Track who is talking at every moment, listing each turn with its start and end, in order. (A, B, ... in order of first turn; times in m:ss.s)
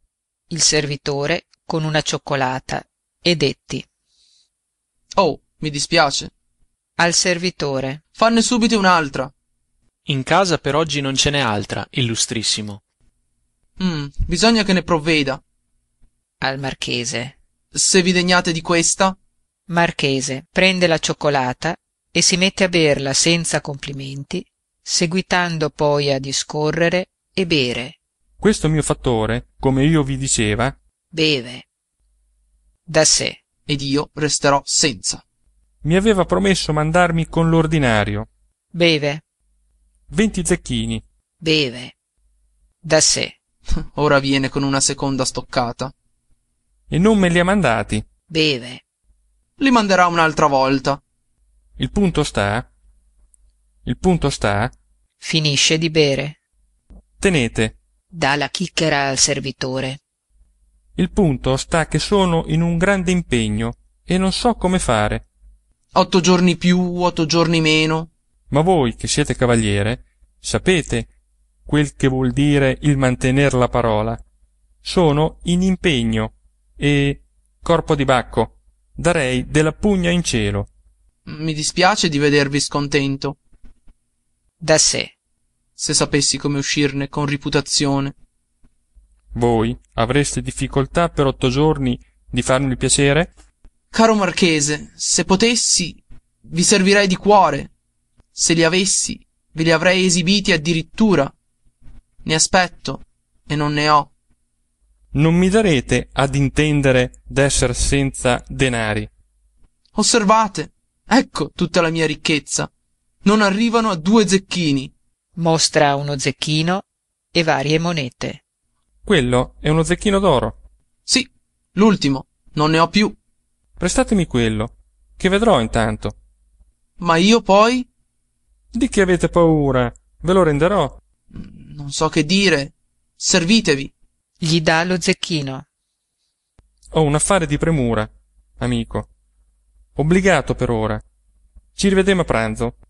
0:00.5-0:03.9 A
0:05.2-0:06.3 B
0:07.0-0:08.0 A
0:08.2-0:09.3 B
0:10.1-0:12.8 C
0:13.8-0:15.4 B
0:16.4-0:17.4 A
0:17.7-0:19.2 B
0:19.7-0:28.0 A
0:28.4-0:30.8 D
0:31.1-0:31.6 A
0:32.9-0:33.4 A
0:33.7-0:35.2 B
0:35.8-0:38.3 D
0:38.7-0:39.2 A
0:40.1-0:41.0 D
0:41.4-0:41.9 A
0:42.8-0:43.4 A
0:43.8-0:45.9 B
0:46.9-0:48.0 D
0:48.3-0:48.8 A
0:49.6-0:51.0 B
0:51.8-0:52.7 D
0:53.8-0:54.7 D
0:55.2-0:56.4 A
0:57.2-0:57.8 D
0:58.1-1:00.0 A
1:01.0-1:05.2 D
1:05.9-1:08.1 B
1:08.5-1:11.1 D
1:11.7-1:14.2 D
1:14.8-1:20.7 D
1:21.3-1:23.4 B
1:24.6-1:25.1 A
1:25.8-1:28.1 B
1:29.3-1:33.3 D
1:33.9-1:37.7 B
1:38.3-1:41.3 B
1:42.2-1:44.1 B
1:45.1-1:49.1 D
1:50.0-1:52.7 B
1:53.2-1:54.9 B
1:55.4-1:58.4 A
1:59.0-2:00.6 D
2:01.1-2:03.2 B
2:03.8-2:06.2 D
2:07.0-2:07.9 B
2:08.7-2:11.0 D
2:11.3-2:13.9 B
2:14.4-2:15.7 A
2:16.9-2:19.1 D
2:20.0-2:21.0 D
2:21.8-2:22.8 D